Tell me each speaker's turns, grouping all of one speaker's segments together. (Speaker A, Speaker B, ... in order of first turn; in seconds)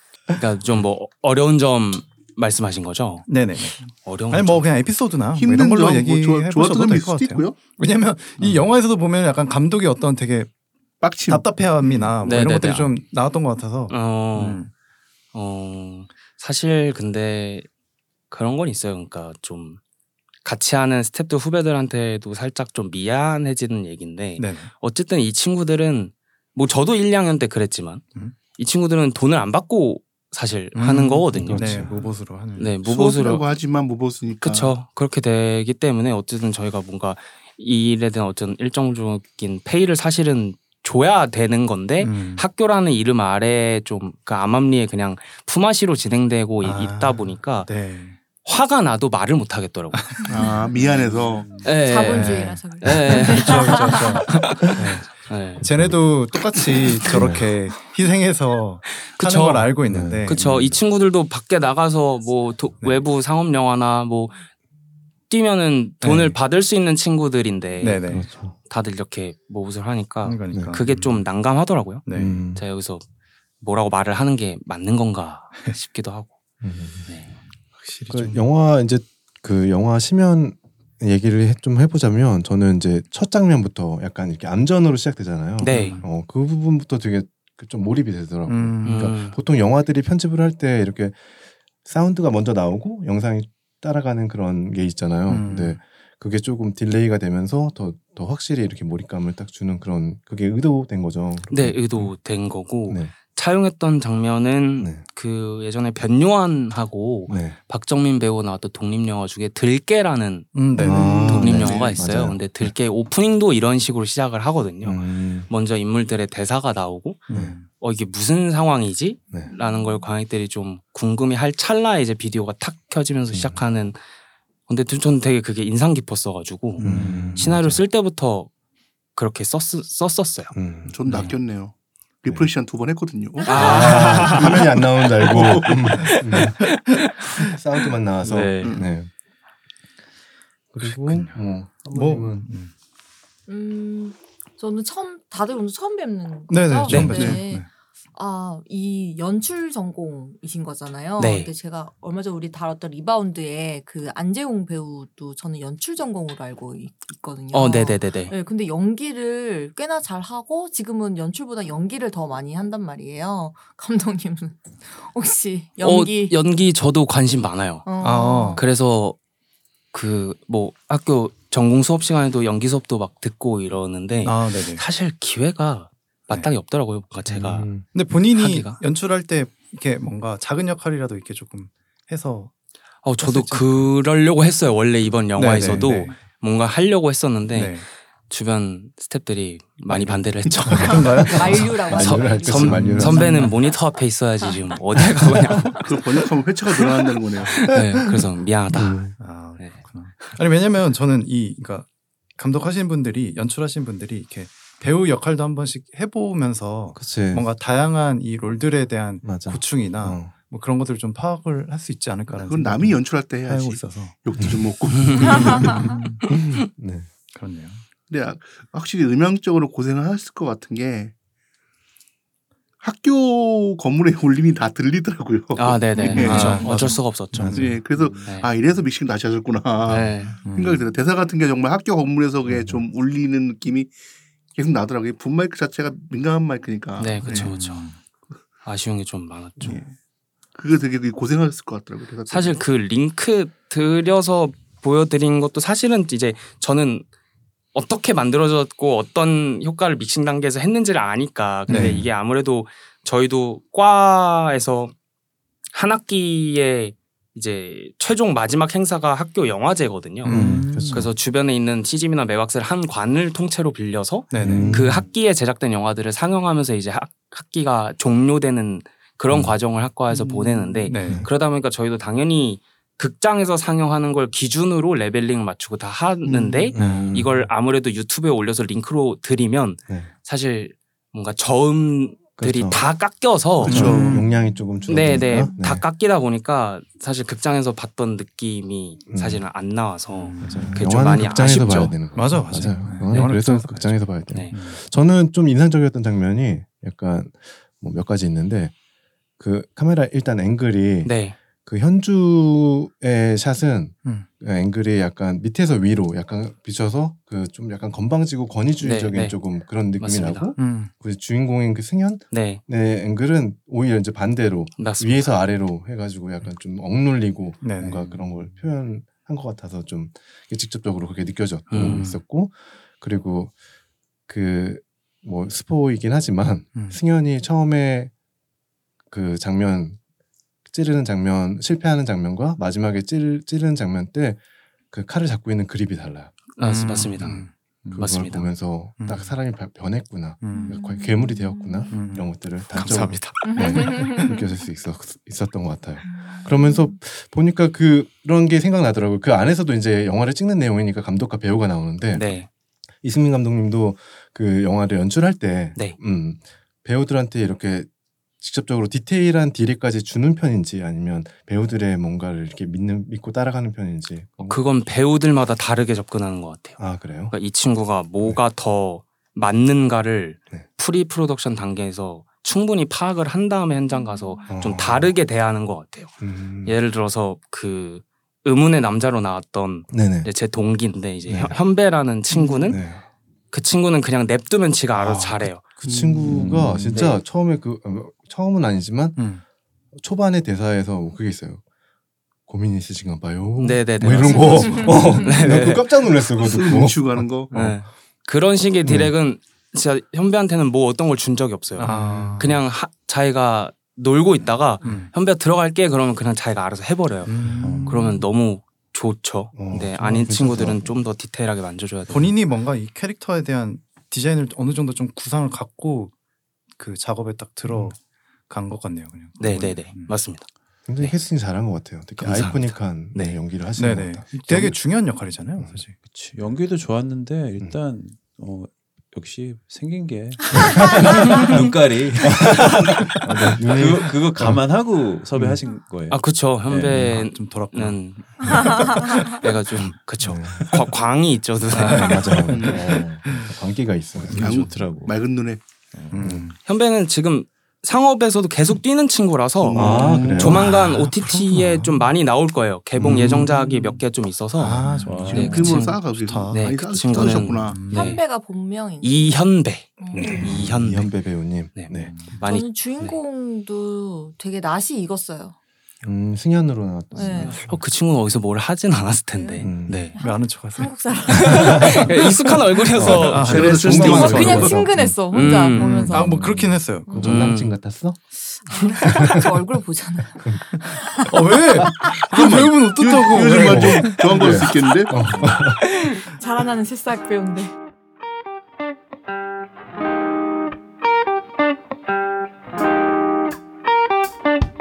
Speaker A: 0.4-3.3, 3.9-4.7, 12.2-12.9, 13.9-14.6, 15.3-17.7, 18.3-19.8, 20.4-28.0, 28.5-31.9, 32.5-33.5, 34.4-47.7, 48.4-50.2, 51.6-55.6, 59.0-59.7, 60.2-64.4, 65.3-68.1, 68.7-72.0, 72.5-73.0, 73.6-76.3, 77.0-77.3, 85.6-86.0, 88.8-89.4, 101.5-124.0, 124.7-128.5, 129.2-130.5, 133.4-137.5, 138.2-138.8, 151.2-151.5, 157.5-158.3, 165.8-167.9, 168.5-169.2, 169.9-177.7, 178.3-178.8, 183.0-191.4, 191.9-196.1, 197.5-199.8, 214.9-215.7, 225.5-227.7, 228.2-228.5, 229.8-230.4, 237.0-237.8, 238.6-239.8, 242.3-247.0, 247.7-254.9, 255.7-284.1, 284.9-292.0, 301.0-301.4, 308.8-309.4, 310.0-310.5, 312.3-312.6, 314.8-315.4, 321.7-322.1, 336.6-337.4, 337.9-338.5, 342.7-343.6, 352.1-352.5, 364.4-366.8, 367.3-376.1, 376.6-382.8, 383.5-385.6, 386.9-387.2, 393.6-395.9, 397.5-407.3, 407.9-412.3, 419.4-420.5, 422.2-423.4, 431.2-431.5, 436.1-442.4, 446.6-454.8, 455.3-458.2, 459.0-461.1, 461.7-463.1, 467.2-470.1, 471.3-474.7, 475.3-476.1, 477.2-477.8
Speaker B: 3.3-10.5, 11.3-14.7, 24.4-24.7, 30.7-32.8, 42.0-42.4, 46.6-48.2, 50.0-51.0, 52.1-60.4, 66.0-66.4, 67.8-68.3, 70.2-71.2, 72.0-72.4, 77.8-78.4, 85.6-86.1, 88.5-89.1, 95.3-95.8, 110.5-111.8, 117.3-117.7, 126.8-127.5, 140.8-141.3, 141.9-142.7, 146.5-147.7, 168.0-168.6, 174.2-174.8, 177.9-182.5, 183.2-183.9, 185.3-186.2, 187.5-187.8, 189.9-191.8, 192.7-193.5, 199.2-214.2, 215.3-216.2, 217.3-217.8, 226.1-227.8, 230.4-230.9, 237.2-238.0, 239.6-239.9, 251.7-252.1, 260.2-261.1, 264.3-264.9, 270.1-271.3, 276.8-277.3, 283.6-284.2, 290.1-290.9, 292.1-294.0, 294.5-294.8, 310.6-310.9, 317.6-318.4, 321.8-322.2, 326.7-327.0, 336.6-338.1, 339.0-339.3, 340.4-340.8, 341.9-342.3, 389.1-389.4, 401.8-402.6, 404.8-405.1, 407.2-408.2, 412.1-416.1, 416.8-418.0, 418.5-420.1, 423.8-426.0, 436.9-439.4, 441.7-443.5, 446.1-446.6, 450.1-452.0, 453.0-453.9, 454.6-458.2, 470.2-472.0, 473.0-474.1, 475.7-477.4, 481.3-484.5
Speaker C: 5.3-7.6, 11.0-11.5, 32.8-34.8, 50.3-51.5, 111.5-111.9, 130.9-135.9, 138.6-138.9, 147.0-147.4, 195.8-197.7, 212.3-215.9, 218.1-221.1, 222.8-226.9, 227.5-233.9, 234.5-237.5, 240.5-242.6, 276.2-276.7, 283.7-284.2, 385.8-386.6, 396.4-397.5, 442.5-442.9, 444.3-445.6, 449.6-450.6, 455.1-457.9, 473.3-474.7, 482.3-485.2
Speaker D: 31.3-31.9, 55.6-56.0, 57.1-57.5, 59.9-60.8, 68.1-68.5, 70.5-70.8, 72.1-72.6, 76.6-77.1, 78.1-91.2, 91.8-102.1, 102.8-103.1, 107.3-107.6, 110.8-112.7, 114.8-115.5, 117.3-117.5, 123.3-123.6, 126.8-127.8, 130.5-131.0, 133.5-136.8, 137.3-139.1, 140.7-142.5, 177.3-177.9, 190.7-193.4, 198.7-199.2, 206.9-207.4, 209.2-210.3, 215.6-217.1, 227.3-227.6, 251.7-252.0, 260.2-261.1, 264.3-265.1, 269.3-269.6, 271.0-271.3, 276.7-277.3, 282.4-282.8, 283.6-285.8, 289.1-289.4, 290.4-298.7, 299.4-301.1, 301.6-323.5, 324.3-328.1, 329.1-330.0, 330.7-334.4, 334.9-336.3, 337.2-352.4, 353.0-357.9, 358.4-364.6, 366.8-367.3, 374.5-375.1, 376.2-376.8, 379.9-380.3, 381.3-381.6, 382.7-383.0, 385.0-389.2, 389.9-391.6, 392.5-397.7, 398.8-399.1, 401.9-402.4, 409.5-411.0, 417.7-417.9, 420.9-424.8, 430.5-431.4, 432.2-434.7, 435.3-435.6, 440.2-440.8, 441.8-444.7, 446.2-446.5, 449.7-450.7, 453.0-453.5, 460.1-462.1, 466.0-467.6, 469.6-470.1, 472.9-475.2, 477.1-478.2, 479.0-479.5, 483.6-485.8
Speaker E: 50.2-50.5, 51.6-54.7, 133.4-133.7, 143.5-166.4, 167.8-168.6, 190.8-193.7, 284.1-285.6, 340.5-342.0, 343.4-344.4, 346.0-346.9, 373.9-374.5, 394.2-395.1, 430.7-431.2, 438.4-439.3, 457.9-459.4, 460.0-460.6, 462.4-465.5, 467.1-467.6, 469.3-472.3, 474.0-476.5, 477.1-477.5, 478.6-482.3, 486.1-487.7
Speaker F: 386.3-386.9, 407.6-408.1, 426.1-437.1, 442.6-443.2, 444.2-445.1, 455.0-455.8, 461.9-462.2, 476.1-476.8